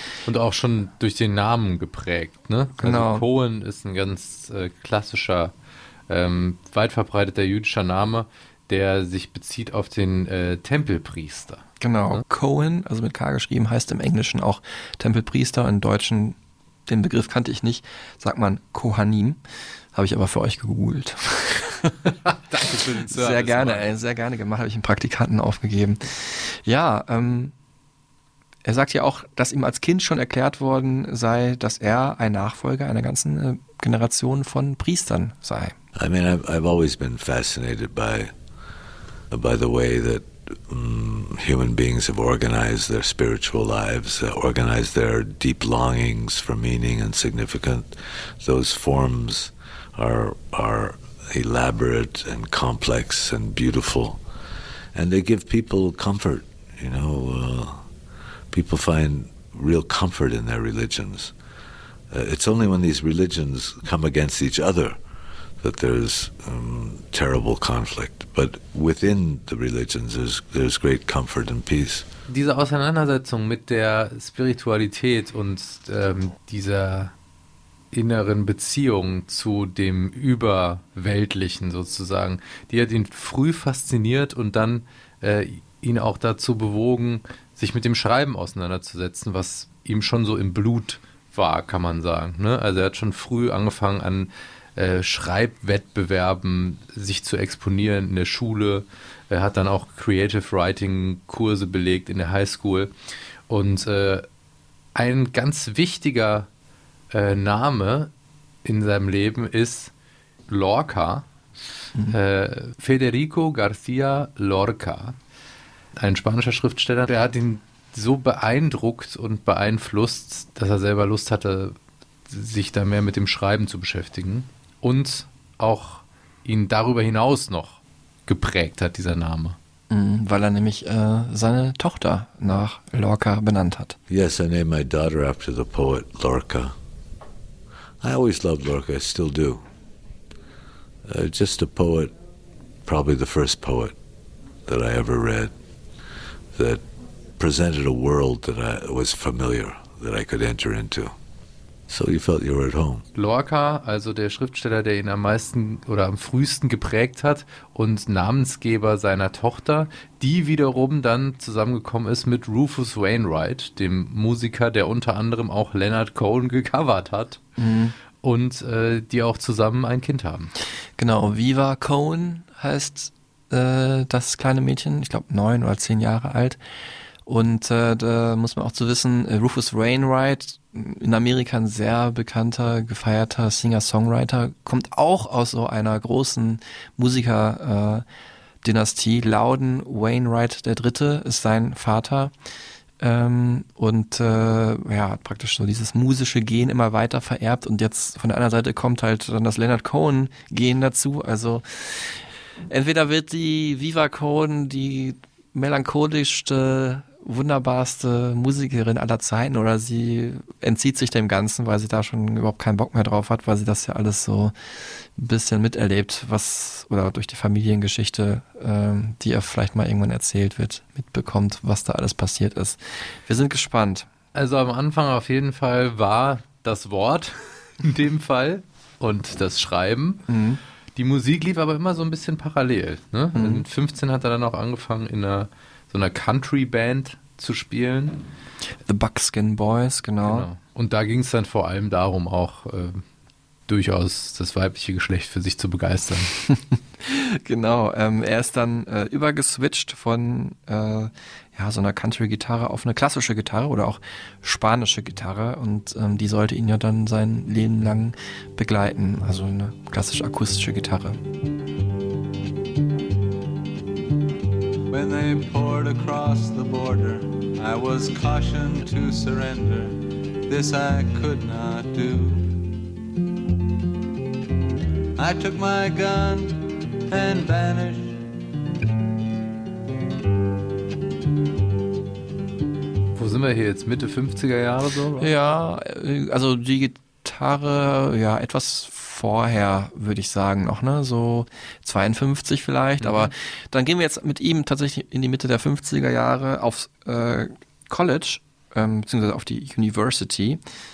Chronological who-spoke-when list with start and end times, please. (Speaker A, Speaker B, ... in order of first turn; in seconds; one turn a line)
Speaker A: 0.2-5.5
Speaker B: 2.8-3.2
Speaker A: 6.1-12.2
Speaker B: 11.8-19.4
Speaker B: 19.9-22.1
Speaker A: 22.0-23.9
Speaker B: 23.1-27.5
Speaker B: 28.6-35.7
Speaker C: 36.0-38.3
Speaker C: 39.3-47.9
Speaker C: 48.4-54.2
Speaker C: 54.9-57.8
Speaker C: 58.5-61.3
Speaker C: 62.1-65.0
Speaker C: 65.6-72.1
Speaker A: 72.3-77.1
Speaker A: 77.9-102.9
Speaker A: 103.5-104.2
Speaker A: 105.0-106.5
Speaker A: 107.1-108.1
Speaker A: 108.6-109.9
Speaker A: 110.5-111.3
Speaker A: 112.1-115.2
Speaker A: 116.0-121.7
Speaker A: 122.3-129.6
Speaker B: 129.9-133.9
Speaker C: 134.1-136.7
Speaker C: 138.0-139.6
Speaker C: 141.0-142.1
Speaker C: 142.8-143.9
Speaker C: 144.7-145.5
Speaker C: 146.6-146.8
Speaker C: 147.4-151.1
Speaker C: 151.9-153.0
Speaker A: 153.1-167.4
Speaker B: 167.6-167.9
Speaker A: 168.2-170.5
Speaker B: 171.0-176.6
Speaker B: 177.2-188.0
Speaker B: 188.6-192.3
Speaker B: 193.0-214.5
Speaker B: 215.2-224.1
Speaker A: 224.3-230.2
Speaker B: 230.3-230.6
Speaker A: 230.9-238.2
Speaker B: 233.3-233.6
Speaker B: 238.8-240.5
Speaker A: 240.2-243.0
Speaker A: 243.7-246.3
Speaker B: 247.0-261.2
Speaker D: 264.9-272.6
Speaker D: 275.1-278.2
Speaker A: 283.1-285.3
Speaker B: 285.2-300.6
Speaker A: 293.0-293.3